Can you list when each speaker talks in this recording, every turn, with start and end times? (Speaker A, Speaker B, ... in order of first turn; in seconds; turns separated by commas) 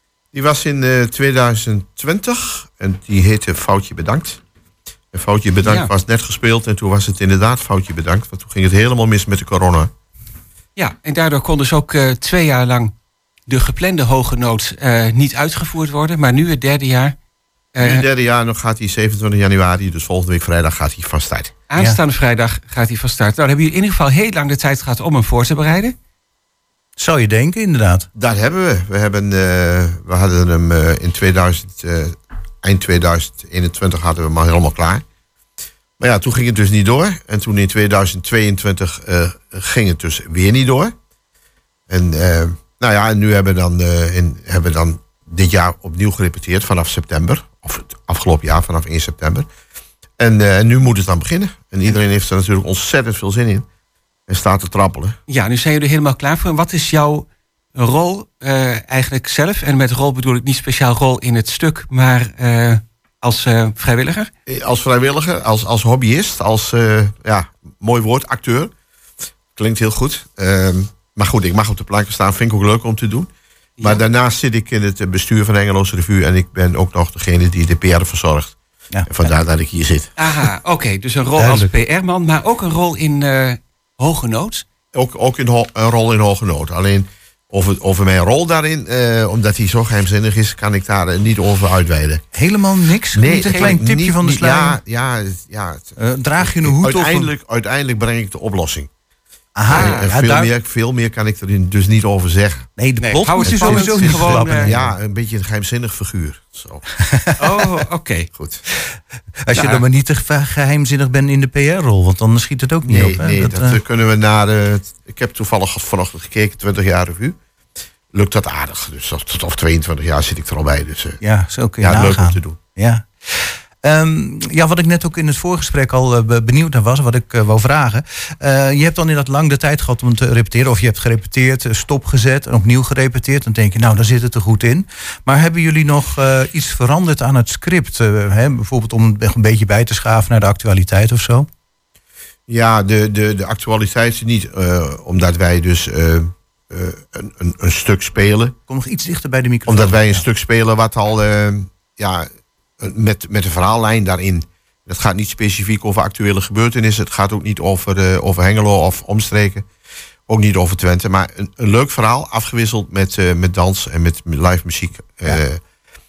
Speaker A: 0.3-4.4, Speaker A: 5.1-9.9, Speaker B: 5.6-5.9, Speaker B: 10.8-12.9, Speaker B: 13.5-17.1, Speaker B: 17.7-18.1, Speaker A: 17.8-21.5, Speaker B: 21.7-25.9, Speaker C: 27.0-28.1, Speaker A: 28.1-35.0, Speaker A: 36.0-40.9, Speaker A: 41.9-49.5, Speaker A: 50.2-53.6, Speaker A: 54.3-55.2, Speaker B: 55.3-64.3, Speaker A: 64.5-68.7, Speaker A: 69.5-73.3, Speaker A: 73.8-78.5, Speaker A: 79.0-80.1, Speaker B: 80.2-84.6, Speaker C: 81.4-81.7, Speaker A: 84.9-92.2, Speaker C: 92.3-94.8, Speaker A: 93.1-98.9, Speaker B: 93.4-93.8, Speaker C: 96.0-97.3, Speaker C: 99.5-100.5, Speaker A: 99.7-102.7, Speaker B: 99.7-100.1, Speaker C: 102.8-104.9, Speaker B: 103.0-104.7, Speaker A: 103.5-106.8, Speaker B: 107.4-108.3, Speaker A: 108.3-108.6, Speaker C: 108.7-113.8, Speaker B: 109.5-109.8, Speaker A: 112.8-117.4, Speaker A: 118.1-121.2, Speaker C: 121.2-141.5, Speaker A: 121.8-122.6, Speaker A: 142.5-148.6, Speaker C: 148.7-150.2, Speaker A: 149.7-159.7, Speaker A: 160.3-165.6